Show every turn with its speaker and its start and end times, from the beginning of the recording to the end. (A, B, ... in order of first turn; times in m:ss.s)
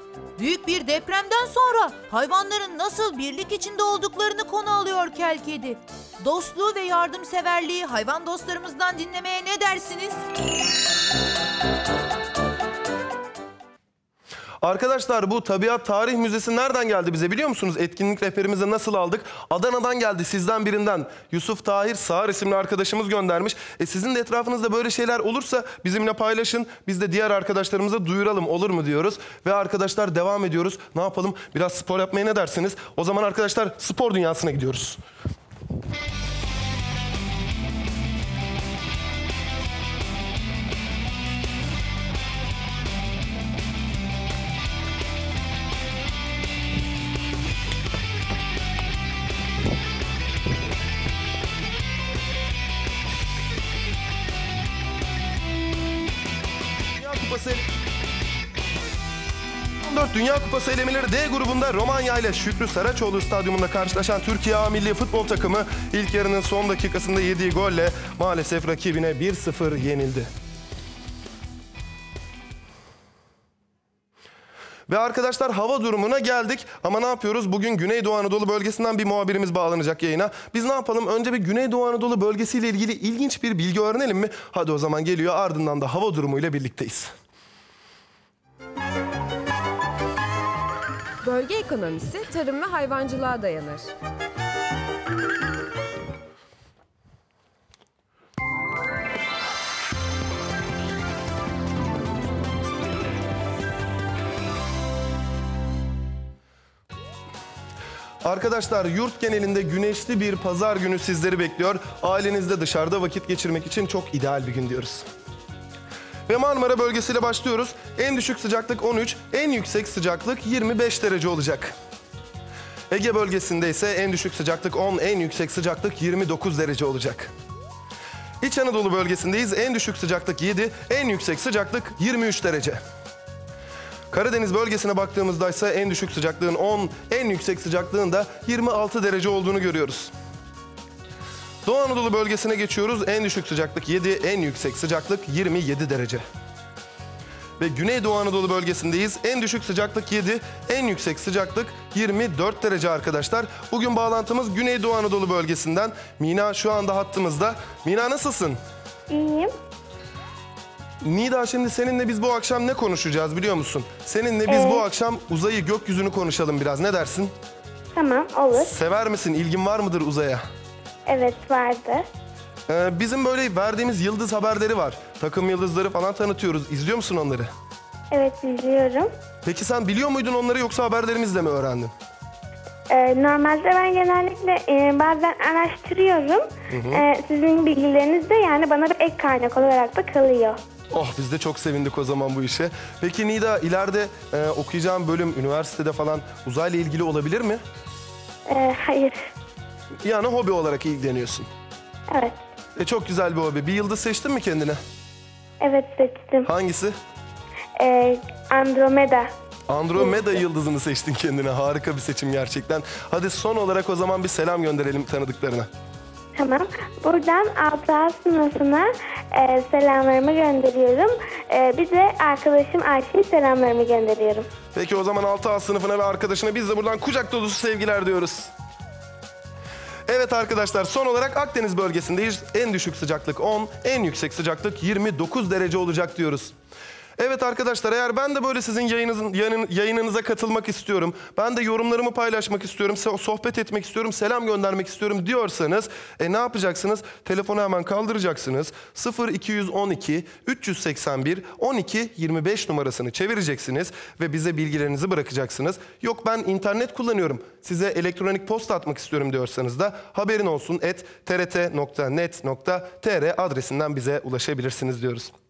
0:00.4-0:10.2 A
0:14.6-0:35.0 B
0:57.0-0:57.6 B
0:59.8-1:10.3 B
1:14.9-1:27.1 B
1:31.2-1:33.9 C
1:48.2-1:55.1 B
1:56.3-2:01.7 B
2:02.9-2:07.3 B
2:08.4-2:12.8 B
2:14.1-2:20.1 B
2:21.6-2:26.2 B
2:27.6-2:38.6 B
2:39.1-2:39.5 D
2:41.0-2:47.3 B
2:44.5-2:44.8 D
2:47.9-2:48.7 D
2:48.5-2:50.4 B
2:51.1-2:52.0 D
2:52.7-2:57.5 B
2:58.1-2:59.1 D
2:59.4-3:01.9 B
3:02.9-3:10.6 D
3:06.7-3:07.0 B
3:10.9-3:17.6 B
3:18.5-3:19.2 D
3:20.0-3:21.5 B
3:22.8-3:24.8 B
3:25.6-3:26.5 D
3:26.4-3:27.0 B
3:27.8-3:29.3 D
3:29.7-3:35.7 B
3:36.4-3:44.5 D
3:44.7-3:48.5 B
3:50.1-3:56.5 B
3:57.2-4:25.3 B